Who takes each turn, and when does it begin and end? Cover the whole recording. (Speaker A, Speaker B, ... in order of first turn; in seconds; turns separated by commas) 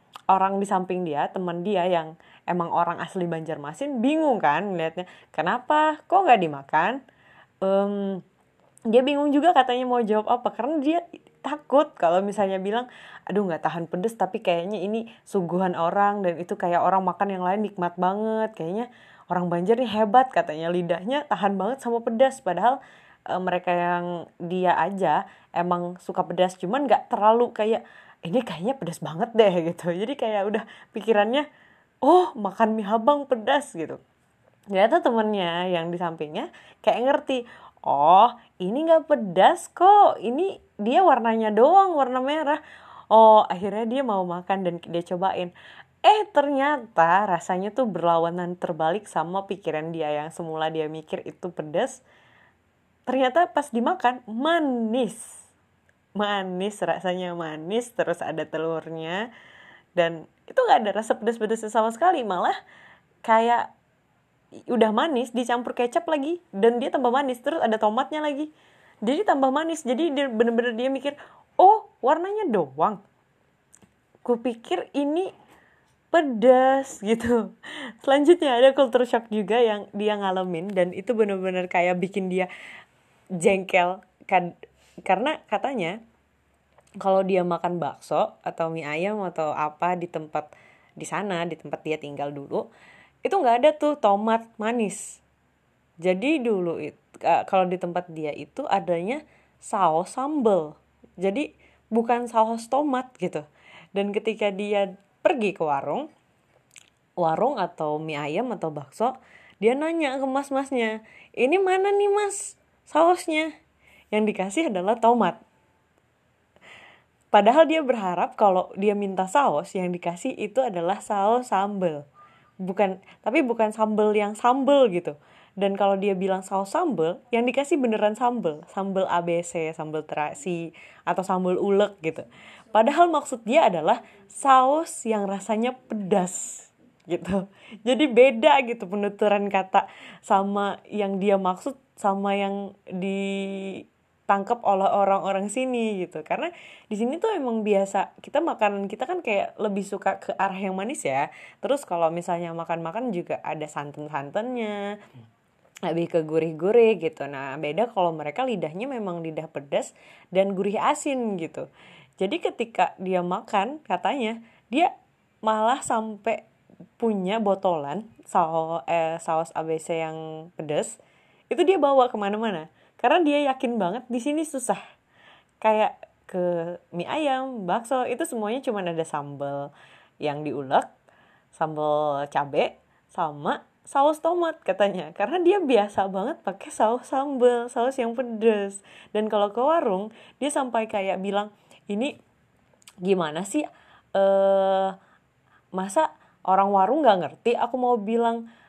Speaker A: 0.3-7.0, Speaker A: 7.6-8.2, Speaker A: 8.9-22.8, Speaker A: 23.3-31.4, Speaker A: 32.0-34.0, Speaker A: 34.7-42.6, Speaker A: 43.1-45.5, Speaker A: 46.0-52.0, Speaker A: 53.1-55.4, Speaker A: 56.2-59.3, Speaker A: 60.0-62.6, Speaker A: 63.2-63.7, Speaker A: 64.7-68.5, Speaker A: 69.0-73.0, Speaker A: 74.2-75.3, Speaker A: 76.1-82.5, Speaker A: 83.4-84.5, Speaker A: 85.0-86.0, Speaker A: 87.0-92.6, Speaker A: 93.2-95.2, Speaker A: 96.0-103.4, Speaker A: 104.0-106.1, Speaker A: 107.2-113.5, Speaker A: 114.1-115.4, Speaker A: 117.3-122.0, Speaker A: 122.6-154.8, Speaker A: 155.9-161.7, Speaker A: 162.2-164.9, Speaker A: 165.4-166.4, Speaker A: 167.0-170.9, Speaker A: 171.5-174.8, Speaker A: 175.6-179.7, Speaker A: 180.2-180.9, Speaker A: 181.6-192.1, Speaker A: 193.0-194.9, Speaker A: 195.8-198.4